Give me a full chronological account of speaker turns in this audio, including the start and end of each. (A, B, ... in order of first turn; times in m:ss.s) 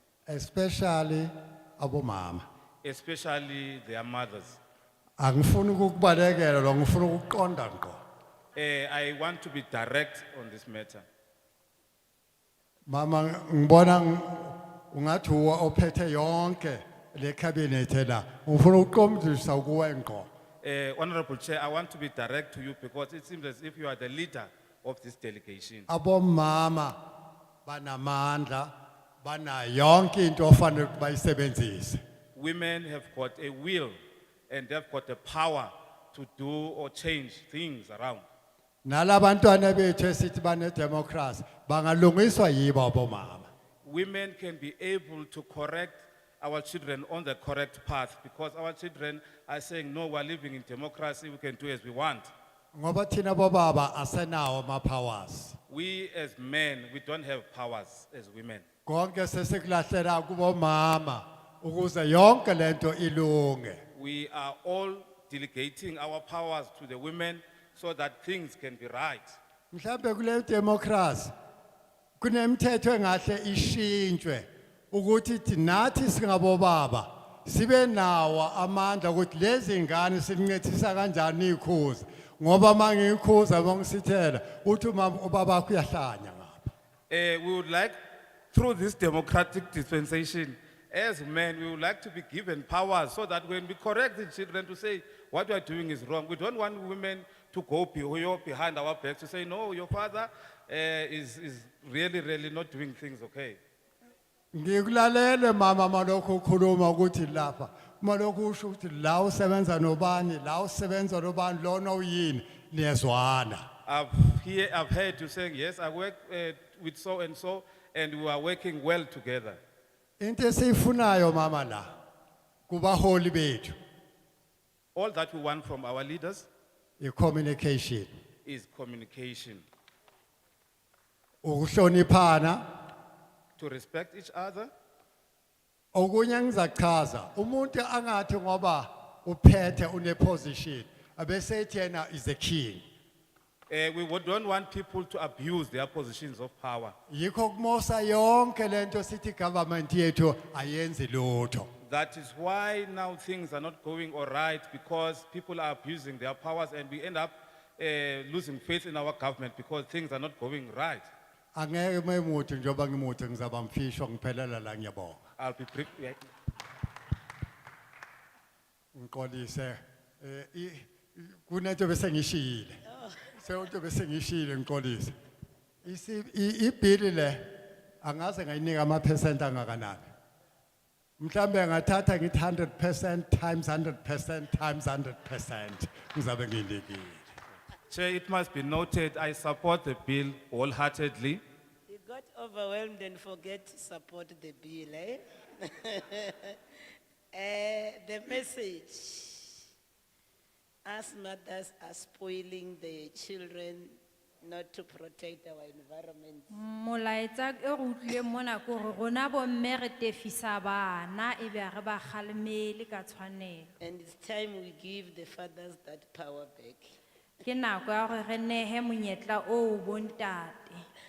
0:00.3-0:02.4 A
0:02.8-0:04.6 B
0:05.2-0:08.0 A
0:08.5-0:11.0 B
0:12.9-0:20.3 A
0:20.6-0:25.9 B
0:25.9-0:27.0 A
0:27.6-0:32.0 A
0:32.3-0:34.0 B
0:34.5-0:38.3 B
0:38.8-0:43.5 A
0:43.8-0:52.3 B
0:52.7-0:55.6 A
0:55.7-0:58.6 B
0:58.8-1:03.8 A
1:03.9-1:09.4 B
1:09.7-1:11.3 A
1:12.2-1:26.7 A
1:27.1-1:28.0 B
1:28.5-1:43.6 B
1:44.5-1:53.7 A
1:53.8-1:59.6 B
2:00.2-2:01.9 A
2:02.7-2:03.8 A
2:04.9-2:06.5 B
2:07.0-2:08.1 A
2:08.4-2:09.6 B
2:11.4-2:12.6 A
2:13.6-2:14.7 B
2:15.9-2:22.8 A
2:23.7-2:26.9 B
2:27.1-2:31.7 A
2:31.8-2:41.1 B
2:41.5-2:45.2 A
2:45.4-2:46.2 B
2:48.9-2:52.8 A
2:52.8-2:53.3 C
2:53.3-2:55.1 A
2:55.8-2:57.4 A
2:58.0-3:00.1 A
3:01.2-3:07.3 A
3:07.9-3:11.4 B
3:11.9-3:16.6 C
3:17.3-3:19.6 C
3:20.8-3:26.5 C
3:26.5-3:33.7 D
3:33.8-3:36.8 C
3:37.4-3:40.9 D